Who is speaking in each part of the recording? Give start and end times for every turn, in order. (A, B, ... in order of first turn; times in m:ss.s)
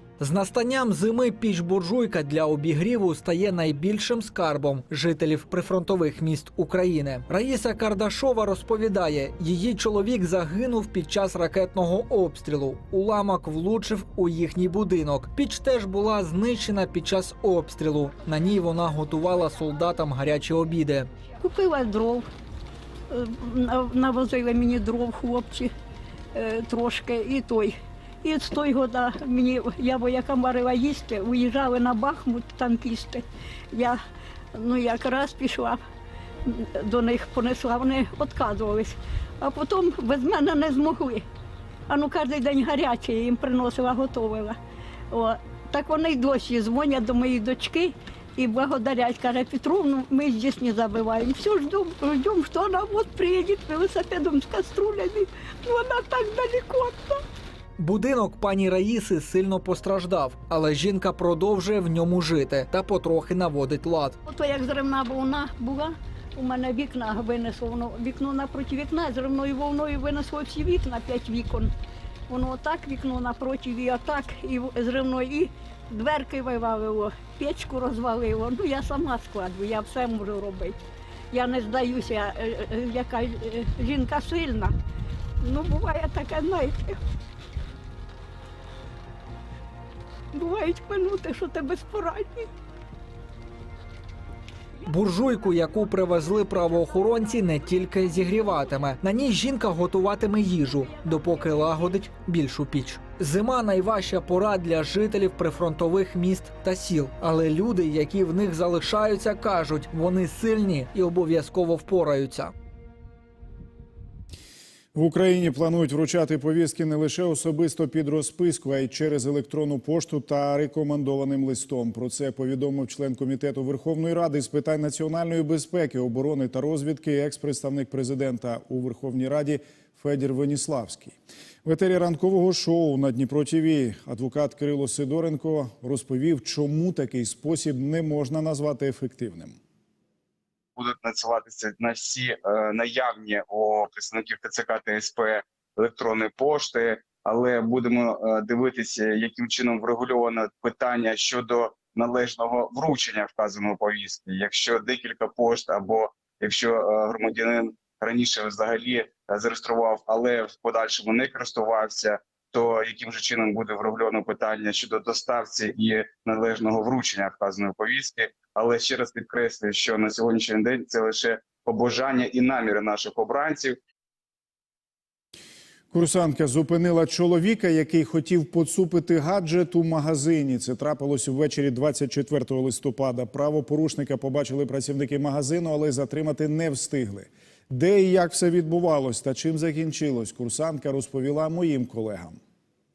0:00.2-0:21.1 A
0:21.4-0:22.3 B
0:23.1-0:25.7 B
0:26.4-0:34.0 B
0:34.6-0:35.8 B
0:36.5-0:41.2 B
0:41.9-0:44.6 B
0:45.1-0:57.2 B
0:57.8-1:04.2 A
1:04.3-1:11.7 B
1:12.3-1:20.8 B
1:21.3-1:24.8 B
1:25.4-1:27.0 B
1:30.3-1:32.5 B
1:34.9-1:52.5 A
1:55.0-2:19.6 C
2:20.8-2:53.8 D
2:55.9-3:12.4 C